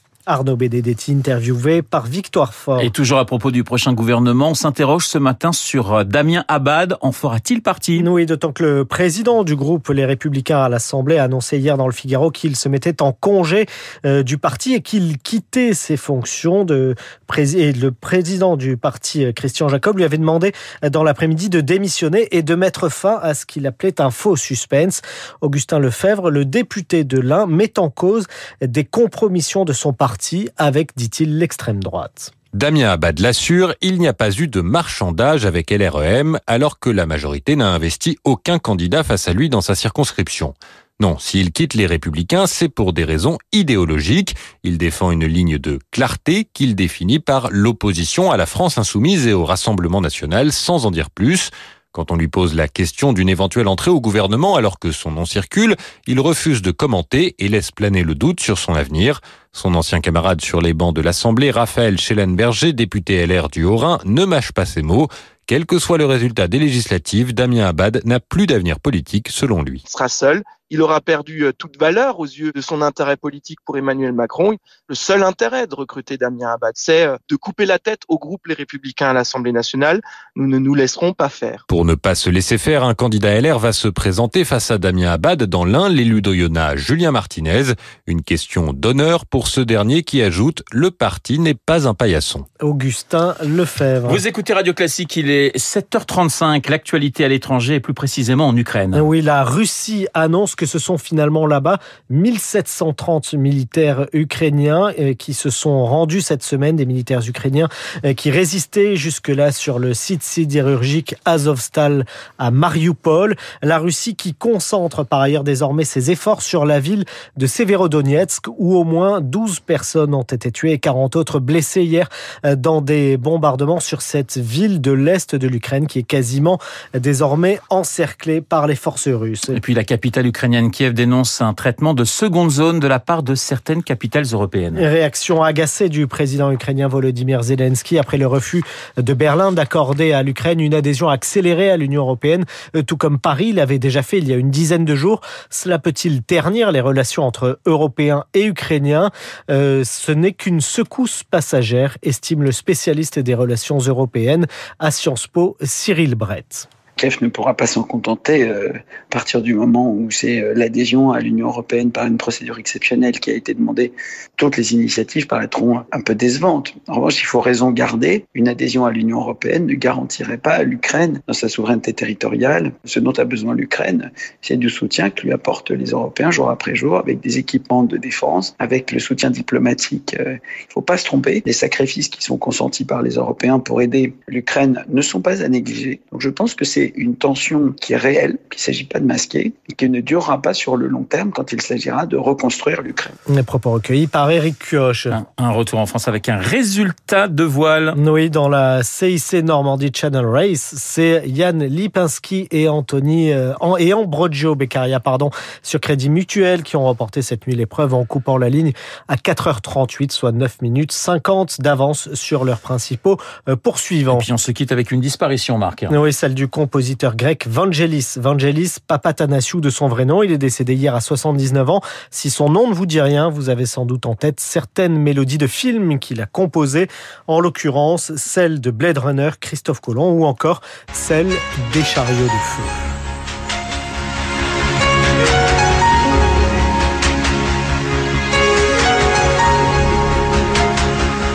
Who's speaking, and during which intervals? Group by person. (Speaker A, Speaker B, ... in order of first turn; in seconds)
Speaker A: 0.3-2.9, 8.0-32.3, 92.6-94.2, 98.9-129.6, 134.8-156.7, 193.3-195.2, 198.0-214.3, 215.9-232.8
Speaker B: 2.8-8.1, 94.1-99.1, 129.5-134.8, 195.1-198.0, 214.1-215.9
Speaker C: 32.5-69.8, 81.7-92.5
Speaker D: 69.9-81.6
Speaker E: 157.0-193.2